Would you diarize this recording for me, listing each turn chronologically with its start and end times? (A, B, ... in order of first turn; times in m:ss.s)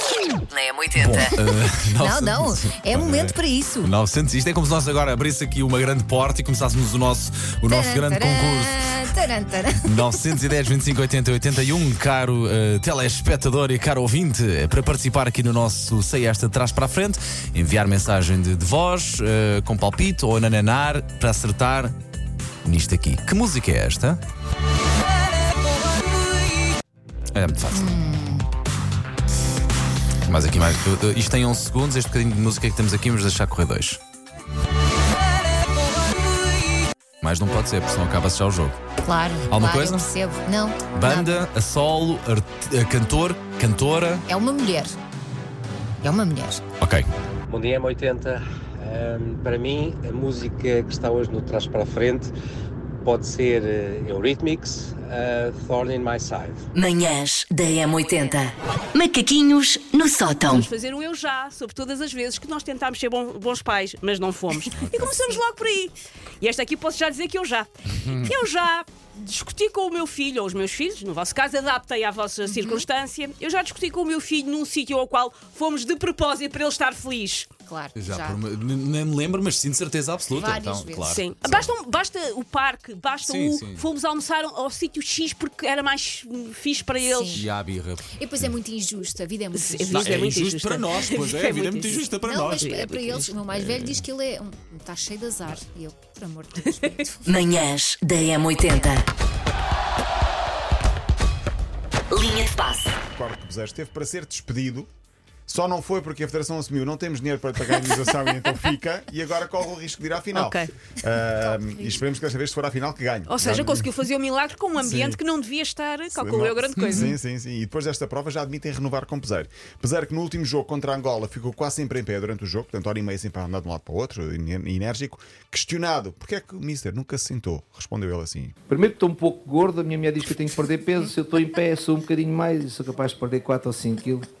0:00.5-0:01.3 A
0:00.9-0:08.8 B
0:02.0-0:03.9 C
0:07.7-0:09.9 C
0:09.8-0:22.0 B
0:22.6-0:24.2 B
0:27.3-0:27.9 B
0:27.7-0:28.5 C
0:30.2-0:34.0 B
0:37.2-0:38.7 B
0:39.0-0:41.4 C
0:39.5-0:40.0 B
0:40.9-0:44.2 B
0:44.3-0:45.0 C
0:46.0-0:46.6 C
0:46.8-0:47.1 B
0:47.5-0:52.3 D
0:53.0-0:56.6 D
0:56.8-1:00.7 A
1:00.4-1:17.5 E
1:04.7-1:05.2 B
1:12.5-1:12.8 C
1:17.6-1:18.4 C
1:18.0-1:21.7 B
1:20.3-1:21.2 C
1:21.1-1:27.4 E
1:23.2-1:23.9 B
1:27.1-1:27.4 C
1:27.2-1:28.5 B
1:28.2-1:30.3 C
1:29.5-1:33.3 E
1:29.9-1:32.7 B
1:32.2-1:37.3 C
1:33.5-1:34.0 B
1:37.3-1:39.0 A
1:42.1-1:42.8 A
1:43.1-1:44.9 F
1:45.5-1:53.9 F
1:50.3-1:50.7 E
1:51.4-1:52.0 C
1:53.3-1:57.1 E
1:54.8-1:55.2 F
1:56.1-2:08.6 F
2:08.7-2:14.2 G